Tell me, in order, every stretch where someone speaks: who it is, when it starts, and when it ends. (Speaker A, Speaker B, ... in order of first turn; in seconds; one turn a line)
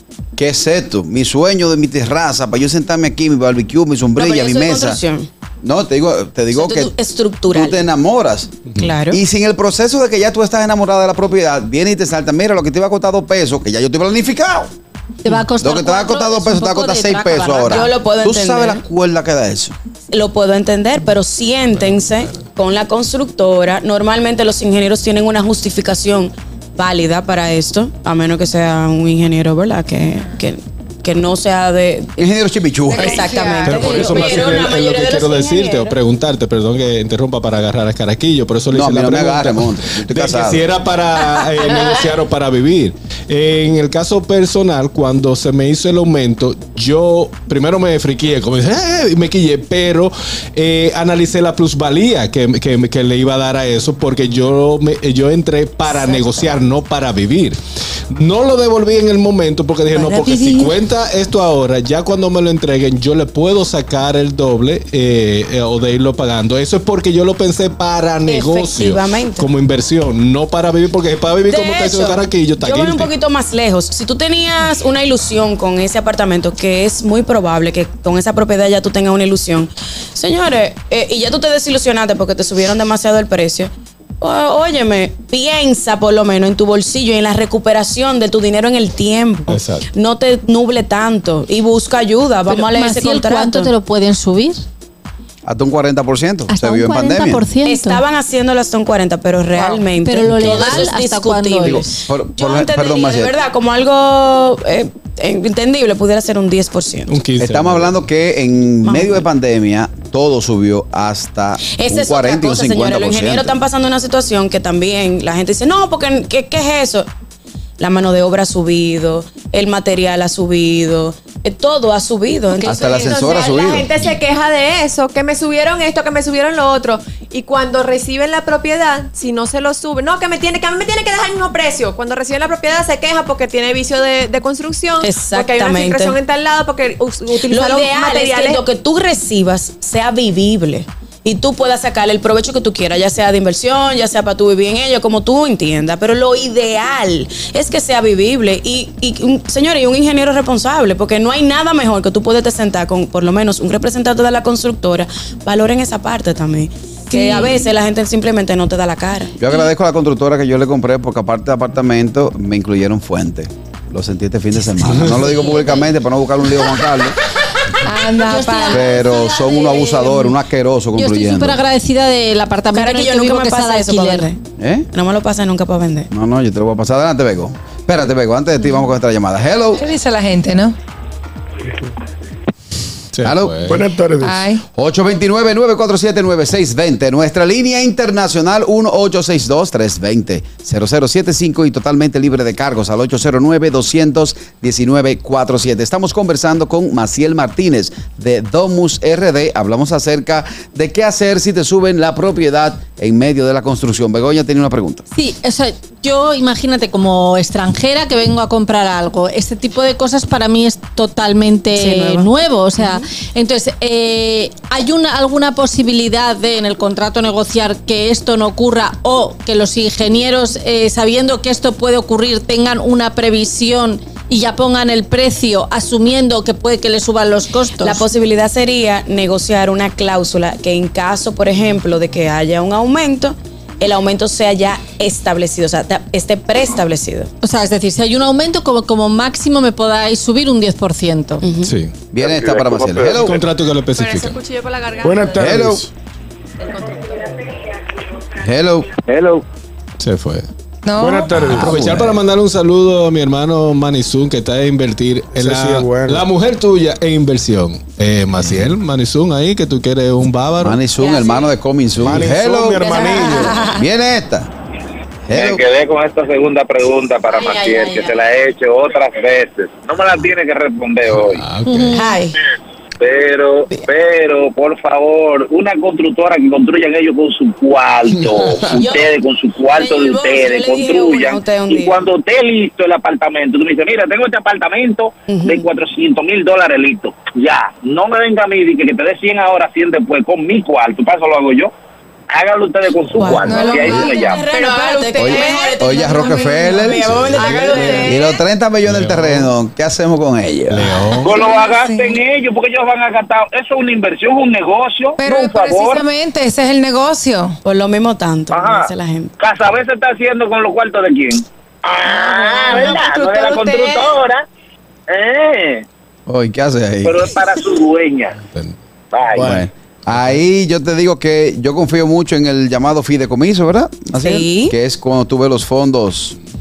Speaker A: 0.4-5.0
Speaker B: 4.2-5.3
Speaker A: 5.6-6.9
Speaker B: 6.5-7.8
Speaker A: 7.5-14.7
Speaker B: 8.8-9.2
Speaker C: 15.2-17.9
Speaker A: 15.6-19.8
Speaker B: 17.7-18.8
Speaker B: 20.1-32.2
Speaker A: 32.2-33.4
Speaker D: 32.9-34.5
Speaker B: 32.9-35.9
Speaker E: 33.6-57.6
Speaker A: 38.7-40.7
Speaker E: 58.1-73.1
Speaker D: 60.0-60.7
Speaker B: 68.3-69.5
Speaker B: 71.5-93.7
Speaker E: 89.5-89.9
Speaker C: 92.5-94.6
Speaker A: 95.5-97.5
Speaker C: 96.5-98.0
Speaker B: 97.6-107.2
Speaker C: 100.0-101.9
Speaker A: 101.6-103.3
Speaker E: 107.1-108.0
Speaker A: 107.4-113.6
Speaker B: 108.8-109.2
Speaker B: 111.7-117.1
Speaker B: 117.8-123.5
Speaker F: 122.6-138.6
Speaker A: 122.6-123.9
Speaker B: 135.0-136.2
Speaker B: 137.5-159.3
Speaker A: 159.4-167.2
Speaker E: 165.0-165.2
Speaker D: 167.8-168.9
Speaker C: 168.1-170.3
Speaker A: 168.7-171.6
Speaker C: 170.9-174.3
Speaker B: 172.7-174.4
Speaker A: 174.6-174.9
Speaker B: 174.9-176.1
Speaker A: 176.1-179.8
Speaker D: 179.8-180.8
Speaker E: 183.1-183.8
Speaker A: 183.2-183.7
Speaker G: 183.7-184.4
Speaker D: 184.2-184.6
Speaker A: 184.7-205.0
Speaker C: 205.1-228.0
Speaker B: 211.8-213.0
Speaker B: 227.8-237.3
Speaker C: 237.4-241.4
Speaker B: 241.4-241.8
Speaker E: 241.6-242.0
Speaker A: 242.1-243.4
Speaker H: 242.3-243.0
Speaker E: 243.2-244.4
Speaker F: 243.9-245.5
Speaker G: 245.0-245.9
Speaker A: 245.4-245.9
Speaker F: 246.6-247.3
Speaker A: 248.4-248.9
Speaker E: 250.0-250.5
Speaker D: 250.8-251.3
Speaker G: 251.0-252.0
Speaker E: 251.4-260.8
Speaker A: 251.5-252.1
Speaker G: 255.4-256.3
Speaker A: 260.6-264.5
Speaker B: 261.0-261.4
Speaker G: 262.0-263.7
Speaker A: 265.3-265.6
Speaker H: 265.3-271.5
Speaker F: 267.4-268.0
Speaker E: 271.1-272.1
Speaker C: 271.7-272.1
Speaker B: 272.0-272.4
Speaker H: 273.0-291.7
Speaker B: 278.7-279.1
Speaker B: 279.7-282.1
Speaker B: 285.3-285.7
Speaker H: 292.3-294.4
Speaker D: 293.2-294.4
Speaker F: 293.7-296.3
Speaker B: 294.1-298.3
Speaker A: 295.2-301.0
Speaker D: 296.1-296.9
Speaker E: 297.3-298.1
Speaker F: 297.4-298.1
Speaker E: 298.9-299.5
Speaker E: 300.7-301.4
Speaker H: 301.2-306.0
Speaker D: 301.3-302.1
Speaker D: 305.2-307.6
Speaker B: 307.6-309.3
Speaker H: 308.5-314.4
Speaker F: 312.1-314.1
Speaker H: 315.1-315.9
Speaker A: 316.3-317.3
Speaker H: 317.0-318.4
Speaker E: 318.5-318.8
Speaker H: 319.1-319.6
Speaker A: 319.4-326.4
Speaker B: 324.2-324.8